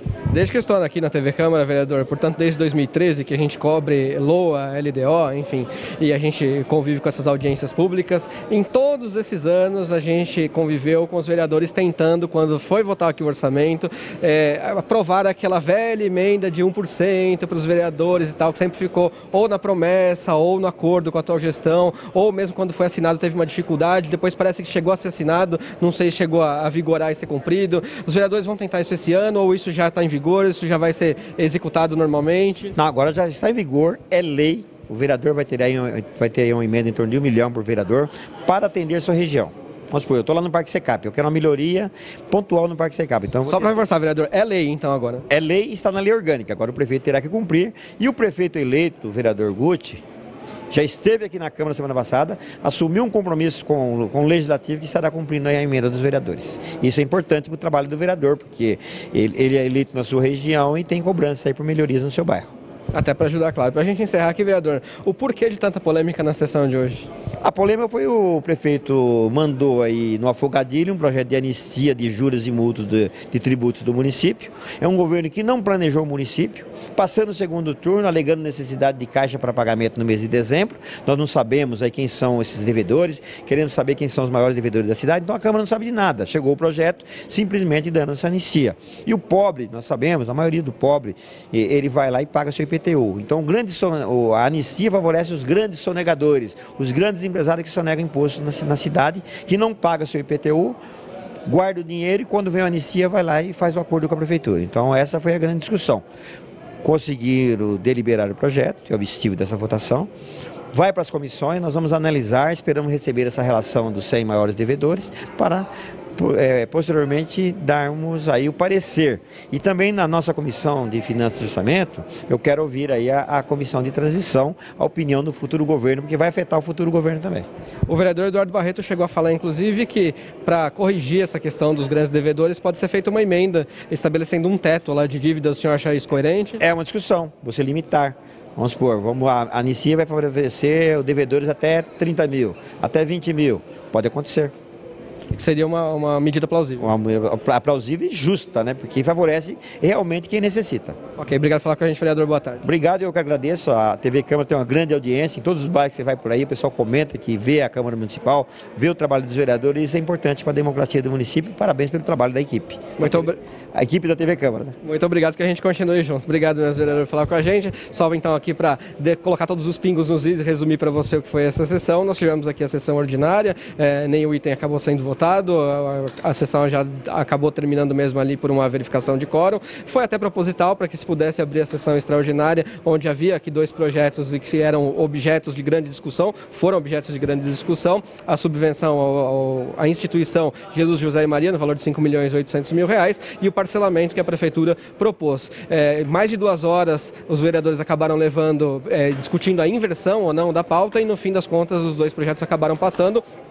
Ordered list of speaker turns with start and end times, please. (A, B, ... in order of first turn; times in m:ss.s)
0:00.3-0:32.7 A
0:32.7-0:43.8 B
0:43.5-0:45.2 A
0:45.3-0:50.0 B
0:50.7-1:02.5 B
1:02.9-1:07.1 A
1:07.4-1:40.8 B
1:41.4-1:46.0 B
1:46.8-1:50.1 B
1:50.7-2:07.5 B
2:07.9-2:16.6 A
2:16.6-2:24.5 B
2:25.3-2:26.9 A
2:26.8-2:31.0 B
2:31.2-2:32.6 A
2:32.6-2:43.2 B
2:43.0-2:43.4 A
2:43.7-2:44.8 B
2:44.8-3:23.2 A